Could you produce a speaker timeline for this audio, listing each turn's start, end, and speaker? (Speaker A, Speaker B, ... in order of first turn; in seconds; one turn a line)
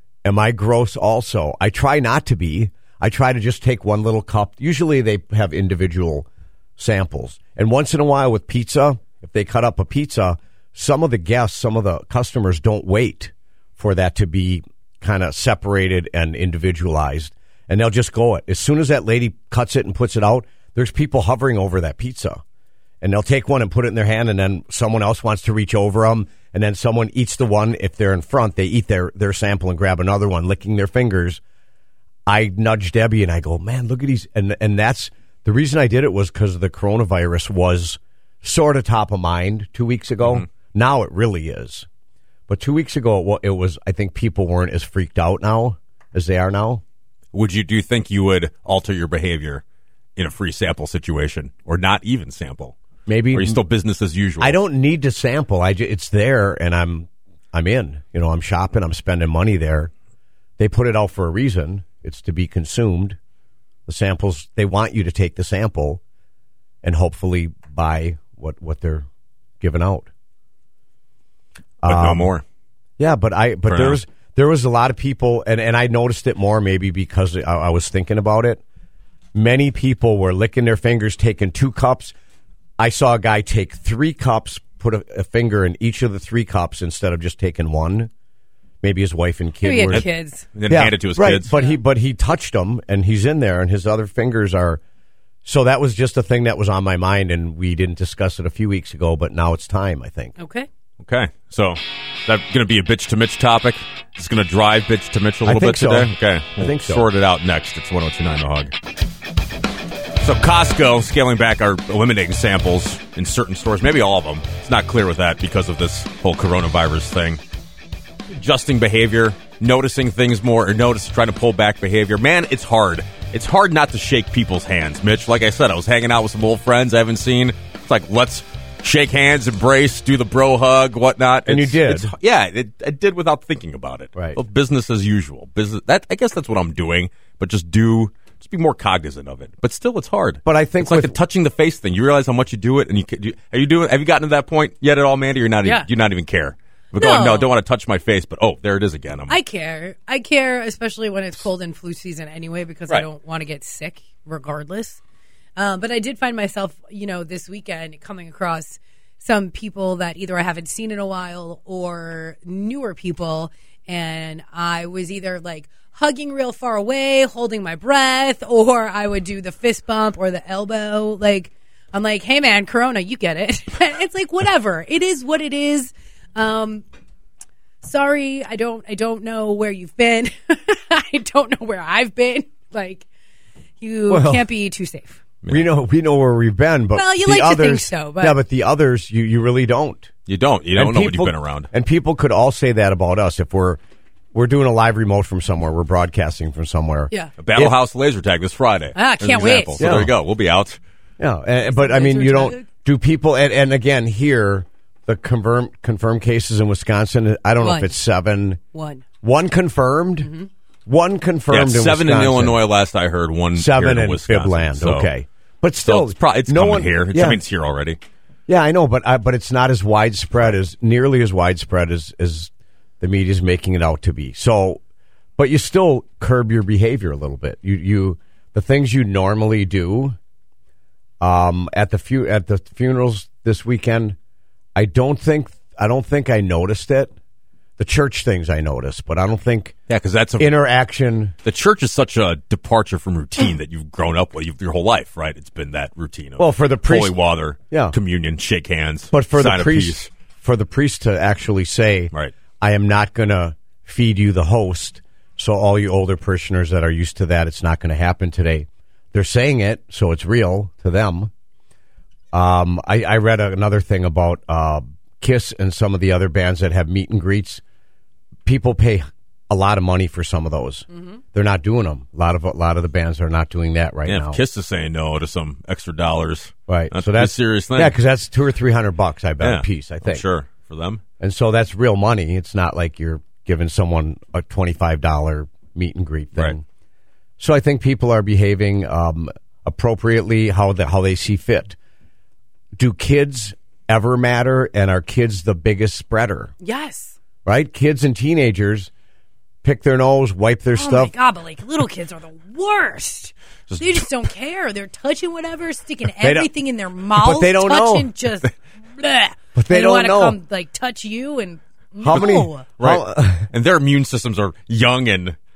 Speaker A: 0.2-22.4
Speaker A: 23.0-31.4
Speaker A: 32.2-41.9
Speaker A: 42.5-46.8
Speaker B: 47.3-49.6
Speaker B: 50.2-52.8
Speaker A: 53.1-53.6
Speaker B: 53.3-54.6
Speaker A: 54.4-59.9
Speaker A: 60.6-63.2
Speaker A: 63.9-66.0
Speaker A: 66.8-69.0
Speaker A: 69.6-70.1
Speaker A: 71.8-72.3
Speaker B: 71.8-72.4
Speaker A: 73.0-78.6
Speaker B: 73.7-74.0
Speaker A: 79.3-82.1
Speaker A: 82.8-88.1
Speaker A: 88.8-90.1
Speaker C: 89.6-90.5
Speaker B: 89.9-91.5
Speaker A: 90.7-94.8
Speaker C: 91.5-91.8
Speaker A: 95.4-100.3
Speaker C: 100.4-100.7
Speaker B: 101.0-108.7
Speaker A: 105.4-107.1
Speaker B: 110.2-117.4
Speaker B: 118.3-149.4
Speaker A: 131.4-132.1
Speaker A: 140.4-141.2
Speaker C: 145.6-145.9
Speaker C: 147.0-147.5
Speaker C: 149.3-155.0
Speaker C: 155.6-176.8
Speaker C: 177.8-183.1
Speaker C: 183.8-185.2
Speaker A: 184.1-184.4
Speaker A: 185.5-190.1
Speaker C: 186.9-188.4
Speaker B: 190.3-191.7
Speaker A: 190.7-193.8
Speaker A: 194.3-197.8
Speaker B: 197.4-200.8
Speaker C: 198.9-199.8
Speaker A: 199.8-200.1
Speaker A: 201.2-208.6
Speaker C: 201.7-202.7
Speaker C: 207.6-207.9
Speaker C: 208.7-209.0
Speaker A: 209.2-210.3
Speaker C: 210.2-210.5
Speaker A: 210.8-212.6
Speaker B: 211.5-215.1
Speaker A: 213.5-217.4
Speaker B: 215.8-218.0
Speaker A: 218.5-222.5
Speaker A: 223.0-224.8
Speaker A: 225.4-230.2
Speaker A: 231.2-234.2
Speaker A: 234.7-237.1
Speaker A: 237.8-239.8
Speaker B: 239.9-240.5
Speaker A: 240.4-241.3
Speaker B: 241.4-250.1
Speaker A: 246.4-247.2
Speaker A: 247.7-247.9
Speaker A: 249.1-261.3
Speaker A: 262.3-267.6
Speaker A: 268.4-274.4
Speaker B: 274.1-278.0
Speaker A: 276.7-280.2
Speaker B: 279.4-281.0
Speaker A: 281.2-286.6
Speaker A: 287.4-291.8
Speaker A: 292.8-296.5
Speaker C: 296.6-297.1
Speaker A: 297.4-298.9
Speaker A: 299.6-301.1
Speaker C: 300.7-312.7
Speaker B: 303.7-304.1
Speaker A: 306.2-306.5
Speaker A: 307.1-308.1
Speaker A: 309.6-310.4
Speaker A: 312.0-313.5
Speaker B: 312.1-315.4